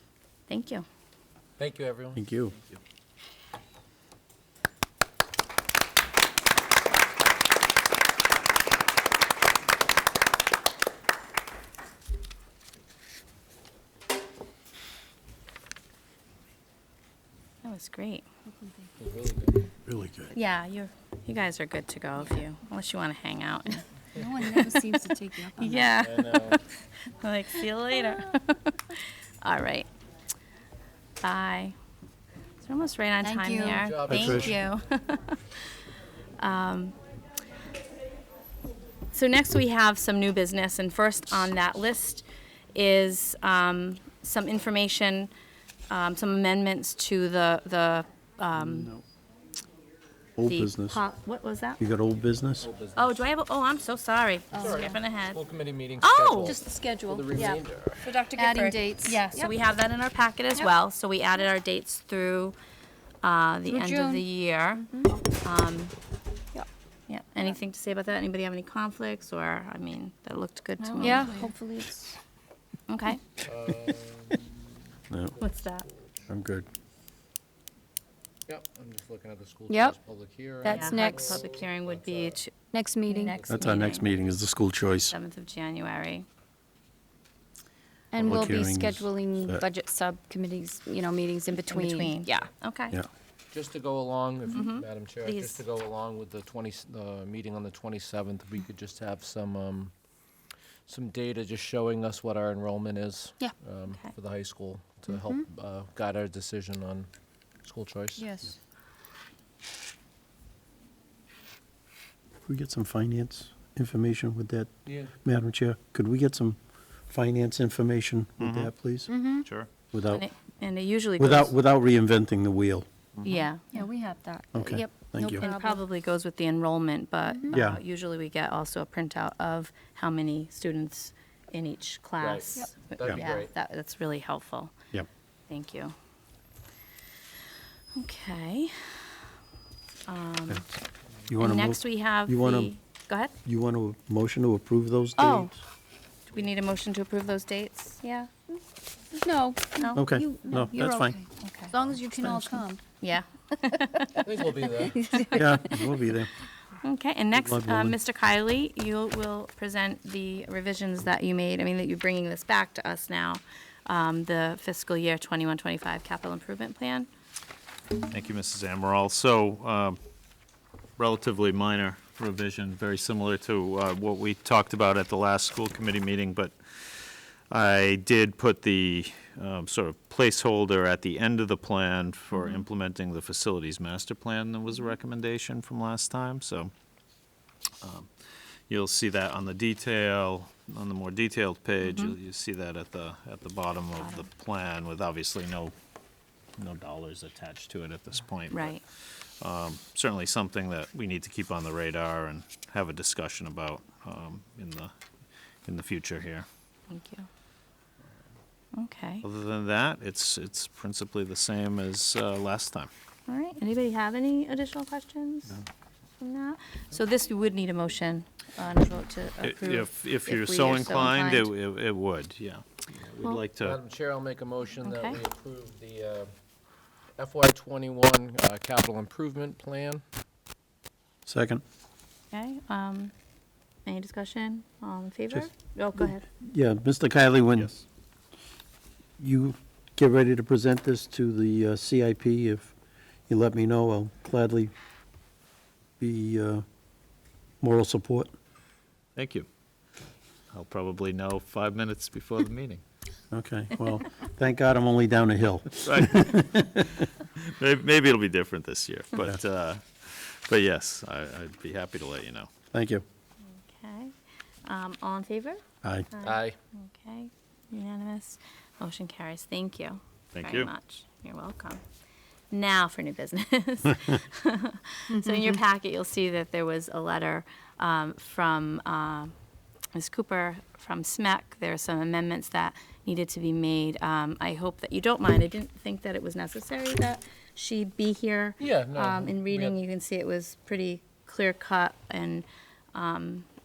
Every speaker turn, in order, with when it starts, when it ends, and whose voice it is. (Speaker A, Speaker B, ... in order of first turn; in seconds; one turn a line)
Speaker A: 0.5-0.8
Speaker B: 1.6-2.7
Speaker C: 2.1-2.5
Speaker A: 17.6-18.2
Speaker B: 19.0-19.7
Speaker C: 19.9-20.3
Speaker A: 20.3-23.9
Speaker D: 24.1-26.0
Speaker A: 25.6-29.9
Speaker B: 26.0-26.6
Speaker A: 31.2-31.7
Speaker A: 32.6-35.8
Speaker D: 33.2-33.9
Speaker B: 33.6-34.6
Speaker C: 34.1-34.5
Speaker A: 36.4-36.9
Speaker A: 39.1-45.3
Speaker A: 45.9-48.9
Speaker C: 48.5-49.0
Speaker C: 50.4-51.0
Speaker A: 50.4-51.8
Speaker C: 51.8-52.7
Speaker B: 52.6-53.2
Speaker A: 52.9-55.4
Speaker D: 54.5-54.9
Speaker B: 54.6-58.1
Speaker A: 56.0-56.6
Speaker D: 56.4-59.5
Speaker A: 58.3-62.5
Speaker A: 63.2-64.8
Speaker D: 63.7-65.1
Speaker A: 65.4-65.9
Speaker A: 67.1-71.3
Speaker D: 70.8-72.2
Speaker A: 72.9-73.2
Speaker B: 73.4-74.6
Speaker B: 75.3-76.2
Speaker A: 75.4-75.9
Speaker C: 76.3-76.7
Speaker B: 78.5-82.4
Speaker D: 79.7-80.0
Speaker D: 80.6-81.4
Speaker A: 80.7-82.5
Speaker D: 82.6-83.4
Speaker A: 83.1-84.1
Speaker B: 83.3-83.9
Speaker C: 83.5-85.1
Speaker A: 85.1-86.2
Speaker D: 88.1-92.5
Speaker C: 88.2-89.6
Speaker A: 91.6-93.0
Speaker B: 93.5-99.9
Speaker A: 94.5-95.6
Speaker B: 100.8-107.1
Speaker D: 105.1-105.5
Speaker B: 107.6-108.5
Speaker D: 108.2-108.6
Speaker C: 112.5-119.1
Speaker B: 114.8-115.1
Speaker E: 118.4-118.7
Speaker D: 119.1-119.5
Speaker E: 119.4-119.7
Speaker C: 119.9-120.2
Speaker A: 120.0-121.5
Speaker C: 121.2-122.8
Speaker E: 123.1-123.4
Speaker A: 123.2-123.6
Speaker D: 123.7-125.8
Speaker C: 124.5-125.4
Speaker A: 125.4-134.7
Speaker D: 127.2-127.5
Speaker C: 127.5-127.8
Speaker B: 132.2-133.5
Speaker A: 135.5-135.9
Speaker A: 137.9-139.2
Speaker A: 140.1-140.6
Speaker C: 141.3-142.7
Speaker A: 141.4-143.3
Speaker C: 143.4-145.6
Speaker A: 145.2-145.5
Speaker A: 146.3-148.3
Speaker D: 149.1-152.8
Speaker C: 149.9-151.2
Speaker A: 151.4-154.3
Speaker B: 154.2-155.1
Speaker D: 154.8-155.8
Speaker A: 155.1-155.4
Speaker C: 155.3-156.3
Speaker A: 156.8-167.1
Speaker C: 157.3-157.9
Speaker E: 168.1-170.0
Speaker E: 171.0-186.7
Speaker A: 182.3-182.6
Speaker E: 187.8-188.1
Speaker E: 188.7-195.7
Speaker A: 191.8-192.1
Speaker A: 194.0-194.2
Speaker E: 196.6-204.9
Speaker A: 198.5-198.8
Speaker E: 205.6-206.4
Speaker A: 206.9-207.3
Speaker A: 208.7-209.2
Speaker E: 209.2-212.9
Speaker A: 213.3-215.6
Speaker A: 216.2-221.5
Speaker E: 219.4-223.8
Speaker B: 223.6-226.3
Speaker A: 224.8-225.2
Speaker B: 227.2-230.0
Speaker C: 231.2-231.6
Speaker A: 232.3-233.1
Speaker A: 233.8-236.2
Speaker C: 236.4-237.8
Speaker C: 239.2-242.7
Speaker C: 243.3-244.7
Speaker C: 246.0-246.6
Speaker C: 247.6-248.3
Speaker E: 249.2-249.5
Speaker E: 250.5-252.8
Speaker C: 253.3-256.6
Speaker E: 255.8-262.5
Speaker C: 262.7-263.0
Speaker A: 263.4-271.8
Speaker C: 265.8-266.1
Speaker B: 266.2-266.6
Speaker E: 270.3-270.7
Speaker A: 272.5-279.3
Speaker D: 275.1-275.6
Speaker A: 279.9-293.5
Speaker B: 288.6-289.8